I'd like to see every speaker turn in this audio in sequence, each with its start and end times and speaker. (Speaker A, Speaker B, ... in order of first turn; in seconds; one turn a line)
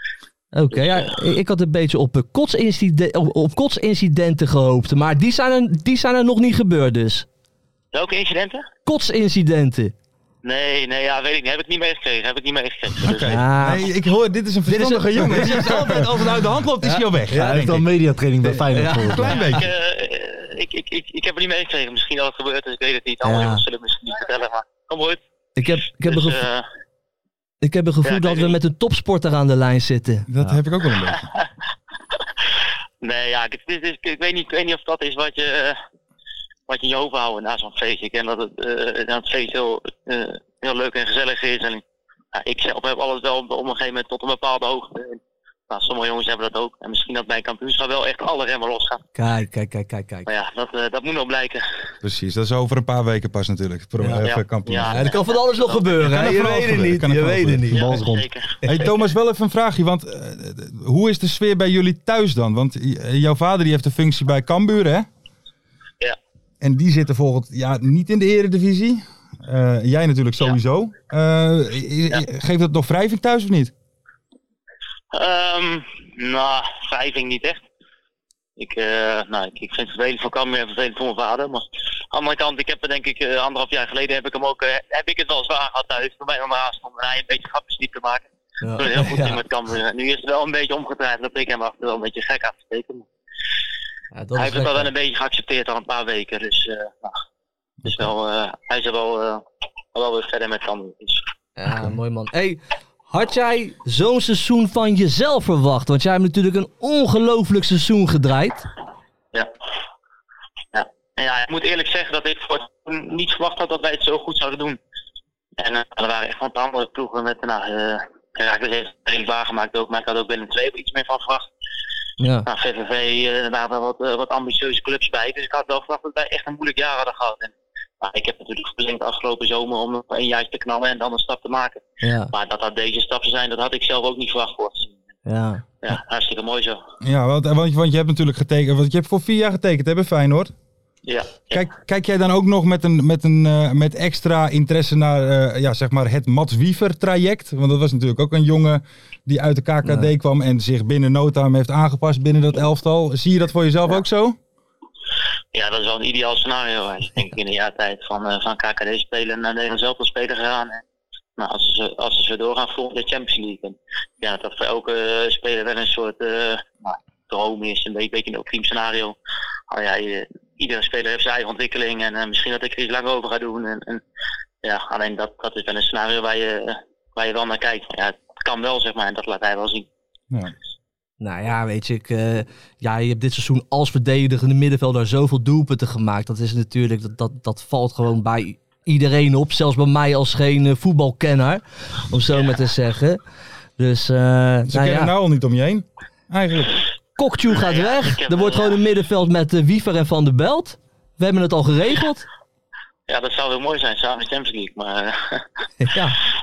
Speaker A: 0.5-7.2
Speaker B: 0.7-1.1
Speaker B: 7.9-8.7
Speaker A: 8.8-9.9
Speaker B: 10.4-13.4
Speaker C: 13.0-17.8
Speaker A: 13.3-13.9
Speaker A: 14.7-17.8
Speaker D: 17.3-19.4
Speaker A: 18.5-19.6
Speaker C: 19.1-19.6
Speaker B: 19.3-25.2
Speaker A: 23.2-23.6
Speaker A: 25.6-26.4
Speaker B: 26.0-26.6
Speaker A: 27.6-30.2
Speaker B: 28.0-28.6
Speaker C: 30.3-31.3
Speaker B: 33.0-35.8
Speaker B: 36.7-41.8
Speaker B: 42.3-49.0
Speaker A: 49.1-50.3
Speaker B: 50.3-51.6
Speaker C: 52.0-55.0
Speaker A: 54.0-54.2
Speaker B: 54.2-55.9
Speaker A: 54.8-57.8
Speaker C: 56.0-57.7
Speaker D: 57.7-58.2
Speaker B: 57.7-59.0
Speaker C: 58.6-65.1
Speaker C: 66.6-73.7
Speaker B: 75.1-77.6
Speaker B: 78.6-93.1
Speaker A: 88.6-89.4
Speaker A: 94.1-94.9
Speaker B: 94.3-97.2
Speaker C: 97.8-98.1
Speaker B: 97.8-99.4
Speaker B: 99.9-101.2
Speaker A: 101.6-108.7
Speaker B: 110.7-114.8
Speaker B: 115.6-121.5
Speaker A: 122.2-122.5
Speaker B: 122.5-134.9
Speaker A: 132.0-132.3
Speaker A: 135.2-135.7
Speaker B: 135.8-136.8
Speaker C: 137.0-140.5
Speaker B: 141.0-141.7
Speaker C: 141.5-154.4
Speaker A: 149.8-150.1
Speaker B: 155.5-160.8
Speaker B: 161.4-169.2
Speaker B: 169.7-174.0
Speaker B: 174.6-179.9
Speaker A: 181.2-193.2
Speaker B: 192.3-192.6
Speaker A: 193.8-195.1
Speaker C: 194.7-196.7
Speaker A: 197.2-202.2
Speaker B: 197.5-198.8
Speaker B: 203.1-205.4
Speaker A: 205.8-206.2